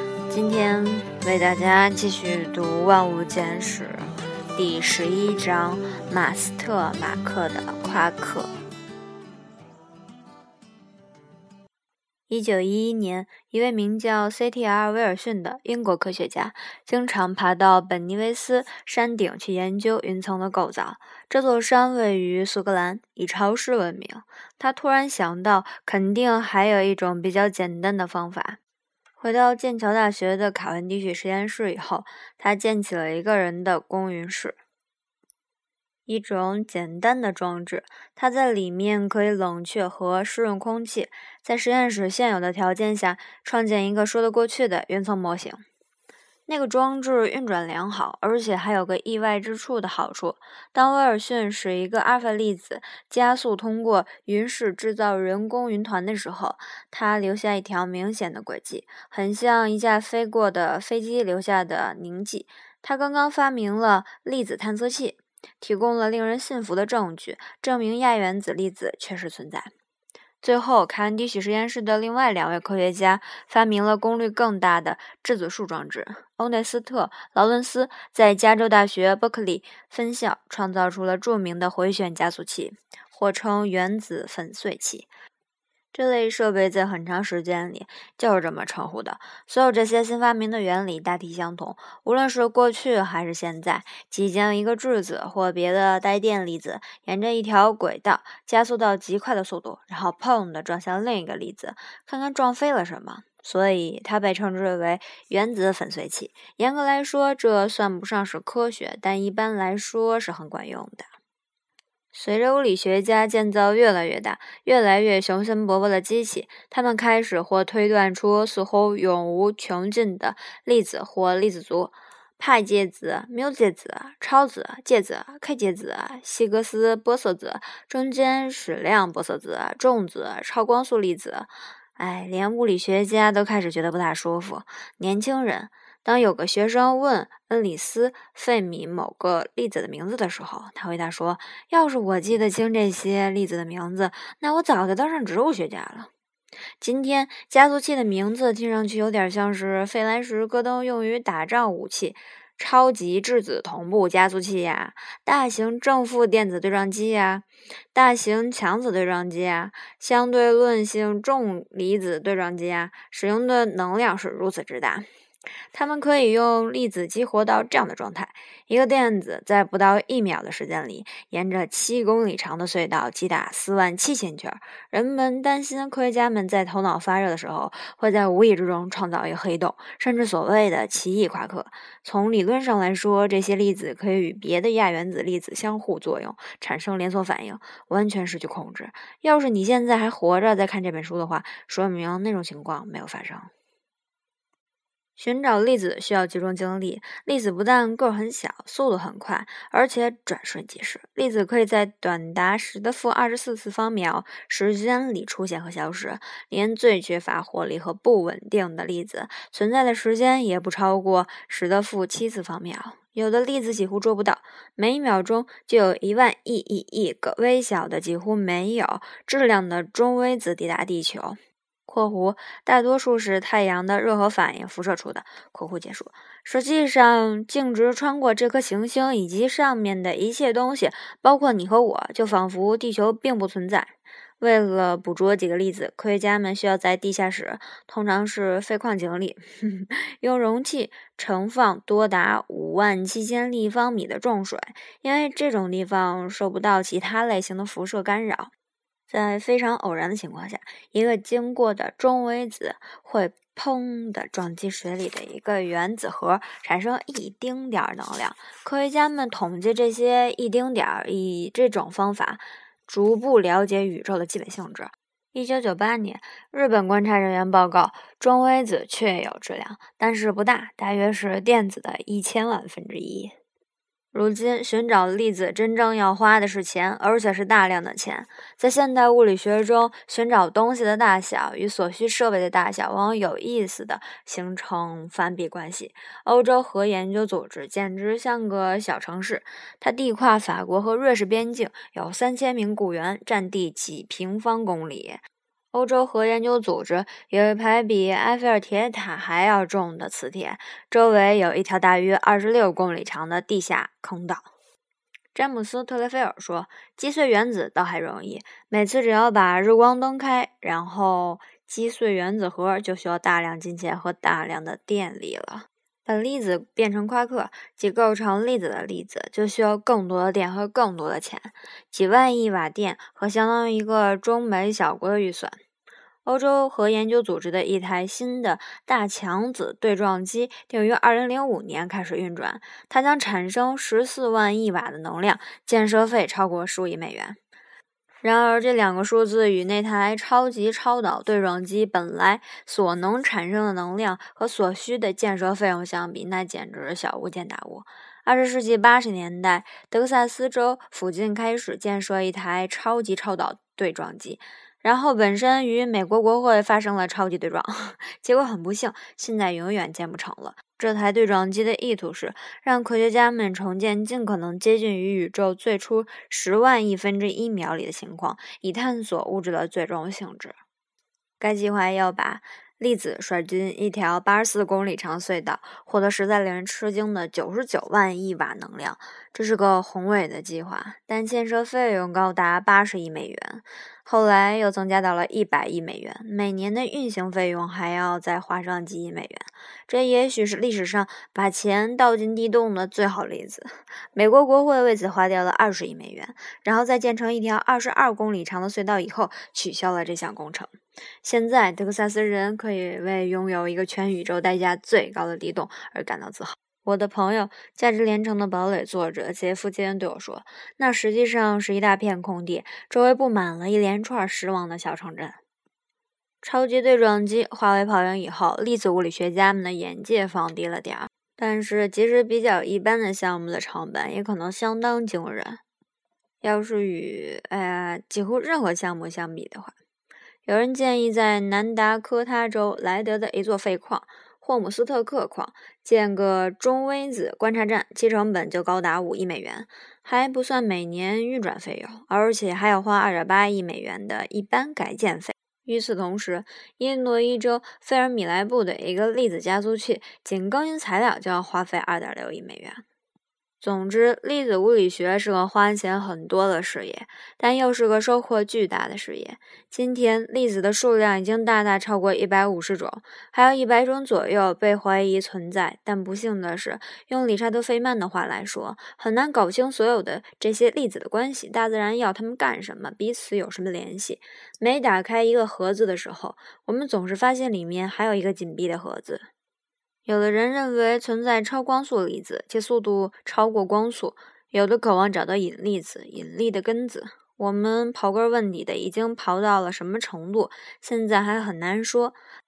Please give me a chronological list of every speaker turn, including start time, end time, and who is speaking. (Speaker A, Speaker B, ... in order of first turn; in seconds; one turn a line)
Speaker A: 0.3-8.5
Speaker A: 12.3-28.6
Speaker A: 29.2-34.6
Speaker A: 36.1-45.6
Speaker A: 46.5-69.7
Speaker A: 70.4-85.1
Speaker A: 85.9-111.1
Speaker A: 112.1-146.1
Speaker A: 146.8-165.1
Speaker A: 165.7-193.5
Speaker A: 195.2-248.5
Speaker A: 249.1-273.4
Speaker A: 274.1-304.5
Speaker A: 305.3-325.6
Speaker A: 326.2-337.4
Speaker A: 338.2-370.6
Speaker A: 371.4-415.4
Speaker A: 416.4-425.6
Speaker A: 426.4-429.8
Speaker A: 430.4-452.8
Speaker A: 453.6-479.3
Speaker A: 480.1-492.2